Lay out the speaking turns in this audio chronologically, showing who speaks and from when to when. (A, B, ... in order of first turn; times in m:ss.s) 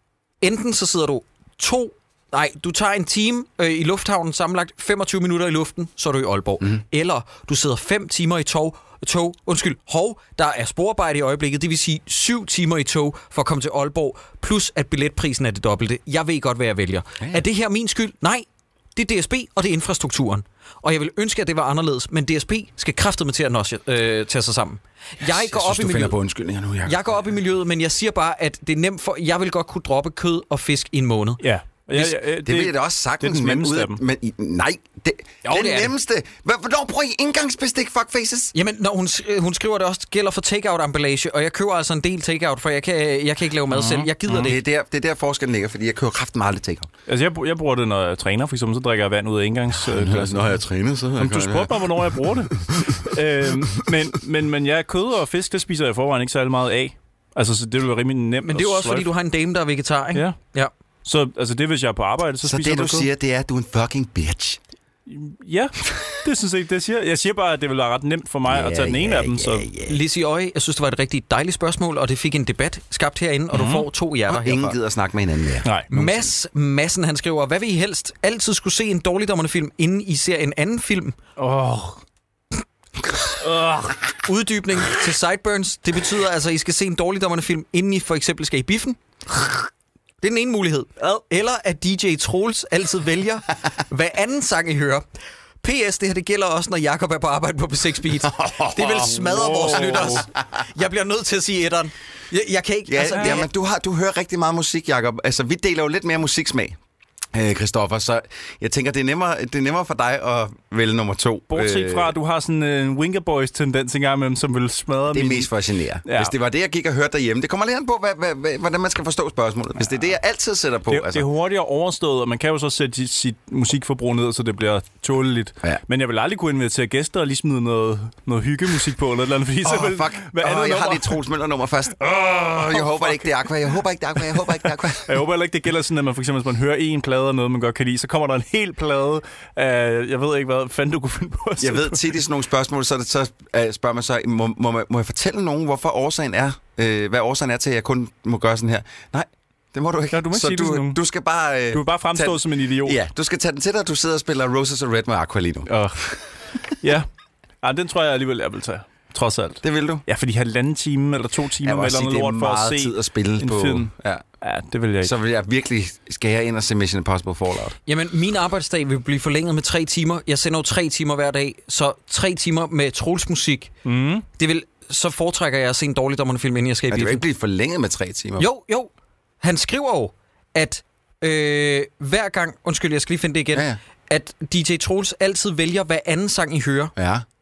0:00.4-0:26.2 A
0:25.2-0:27.0 B
0:26.8-0:31.4 A
0:31.4-0:34.0 C
0:32.4-0:38.6 B
0:35.4-0:35.9 A
0:38.6-0:44.6 A
0:43.7-0:44.5 C
0:44.3-0:46.9 B
0:47.1-0:50.6 C
0:49.8-0:51.9 B
0:51.2-0:59.1 C
0:58.4-1:00.7 A
1:01.0-1:03.1 C
1:02.4-1:04.6 B
1:05.1-1:09.7 C
1:08.5-1:10.0 B
1:09.9-1:14.8 A
1:13.5-1:13.9 C
1:14.3-1:16.3 B
1:15.6-1:15.9 C
1:15.9-1:21.2 A
1:21.4-1:22.0 C
1:23.4-1:24.0 C
1:24.2-1:29.5 A
1:30.2-1:35.0 A
1:35.6-1:43.5 A
1:38.2-1:40.4 B
1:39.2-1:40.2 C
1:42.9-1:46.8 B
1:43.1-1:43.4 C
1:47.3-1:52.2 B
1:51.5-1:55.5 C
1:55.1-2:01.3 B
1:56.1-1:56.3 C
2:00.9-2:11.2 C
2:09.6-2:15.2 B
2:12.6-2:13.2 C
2:15.0-2:22.2 C
2:21.6-2:36.2 B
2:30.1-2:31.0 C
2:31.7-2:33.0 C
2:35.7-2:37.1 C
2:37.6-2:45.1 C
2:39.6-2:40.0 B
2:41.6-2:44.2 B
2:45.0-2:47.8 B
2:47.9-2:53.7 A
2:53.8-2:54.2 C
2:54.4-2:57.2 A
2:56.9-2:58.5 B
2:58.4-2:58.9 A
2:59.4-3:06.9 A
3:03.5-3:03.8 B
3:07.0-3:07.2 B